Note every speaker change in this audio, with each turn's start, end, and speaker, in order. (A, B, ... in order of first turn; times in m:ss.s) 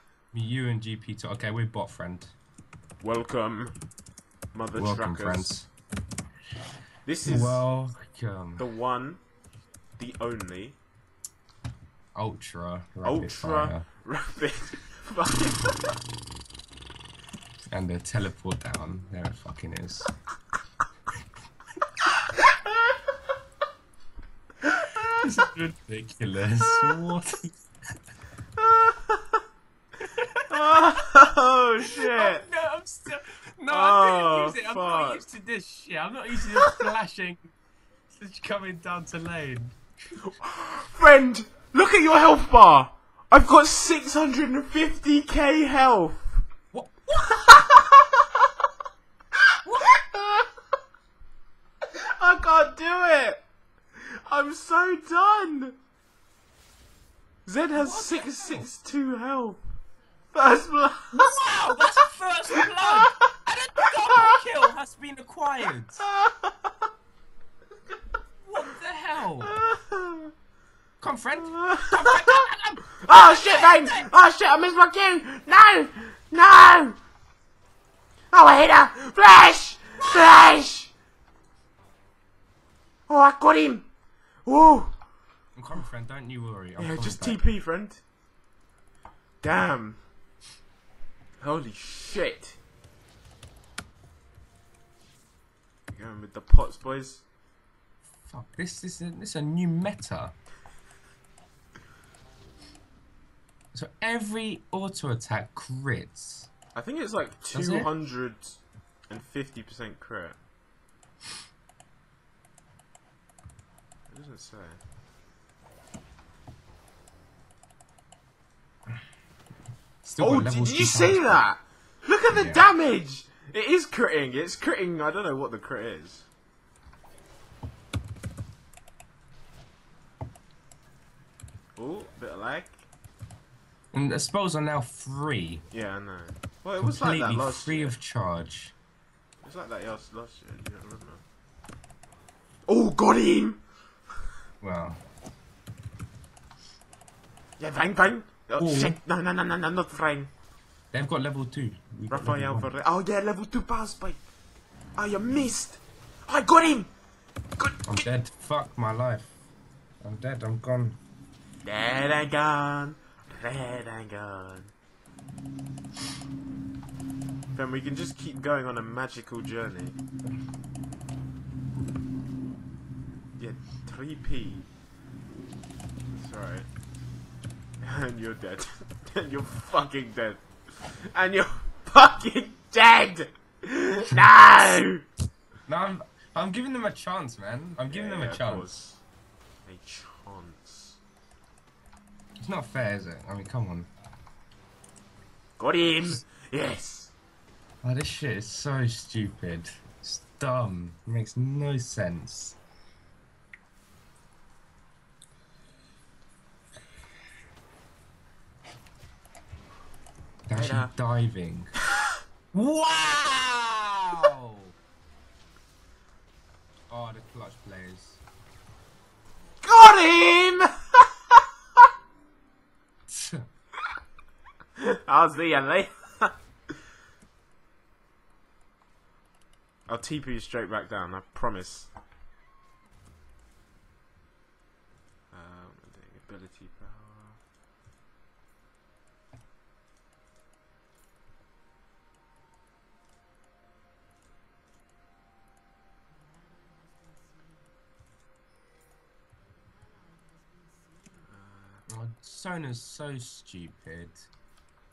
0:00.3-0:02.3 A
0:03.0-0:03.8 B
0:04.5-0:05.5 B
0:04.7-0:05.7 A
0:07.0-0:07.6 B
0:07.2-0:08.6 A
0:08.6-0:09.2 B
0:10.0-0:10.8 B
0:12.1-0:13.8 A
0:13.0-0:16.0 B
0:17.7-0:20.1 A
0:25.0-0:27.6 A
0:28.6-0:29.4 B
0:30.0-0:30.6 A
0:30.5-0:32.4 B
0:31.9-0:37.5 A
0:33.7-0:35.2 B
0:38.1-0:39.8 A
0:40.2-0:46.4 B
0:46.7-0:47.7 A
0:47.3-0:48.4 B
0:49.6-0:50.0 A
0:49.9-0:50.5 B
0:51.9-0:53.4 B
0:54.0-0:55.8 B
0:57.4-0:59.6 B
0:57.8-0:58.7 A
1:00.3-1:01.2 B
1:01.1-1:06.0 A
1:06.0-1:06.8 B
1:08.4-1:09.6 A
1:09.4-1:10.3 B
1:11.0-1:14.1 A
1:11.4-1:12.4 B
1:13.0-1:17.0 B
1:18.3-1:20.9 B
1:23.1-1:23.9 B
1:24.4-1:25.0 B
1:25.6-1:27.4 A
1:26.8-1:28.0 B
1:29.4-1:30.0 B
1:31.4-1:32.6 B
1:35.9-1:37.2 B
1:38.2-1:40.3 A
1:43.7-1:46.5 A
1:46.8-1:50.4 B
1:47.5-1:47.9 A
1:54.1-1:54.8 B
2:00.0-2:01.4 A
2:00.2-2:06.3 B
2:02.3-2:02.6 A
2:11.8-2:12.9 B
2:13.9-2:15.6 A
2:15.7-2:17.9 B
2:16.8-2:18.7 A
2:19.4-2:21.2 B
2:22.7-2:23.6 B
2:24.6-2:25.0 A
2:27.6-2:30.3 B
2:28.6-2:29.0 A
2:30.9-2:32.7 A
2:32.1-2:34.2 B
2:35.0-2:36.9 B
2:37.6-2:38.1 B
2:37.9-2:39.4 A
2:40.0-2:41.0 A
2:41.6-2:44.7 B
2:47.5-2:50.0 B
2:53.4-2:54.7 B
2:56.1-2:56.7 B
2:57.8-3:05.0 B
3:05.7-3:08.7 A
3:07.9-3:09.0 B
3:09.7-3:11.0 B
3:12.4-3:13.9 A
3:15.6-3:17.1 B
3:17.8-3:22.6 A
3:30.5-3:31.7 A
3:30.5-3:30.9 B
3:32.5-3:34.7 A
3:36.9-3:38.2 A
3:39.6-3:41.0 B
3:43.1-3:43.4 A
3:44.8-3:46.3 B
3:49.9-3:51.9 B
3:55.3-3:57.4 B
4:11.3-4:11.8 B
4:11.9-4:14.3 A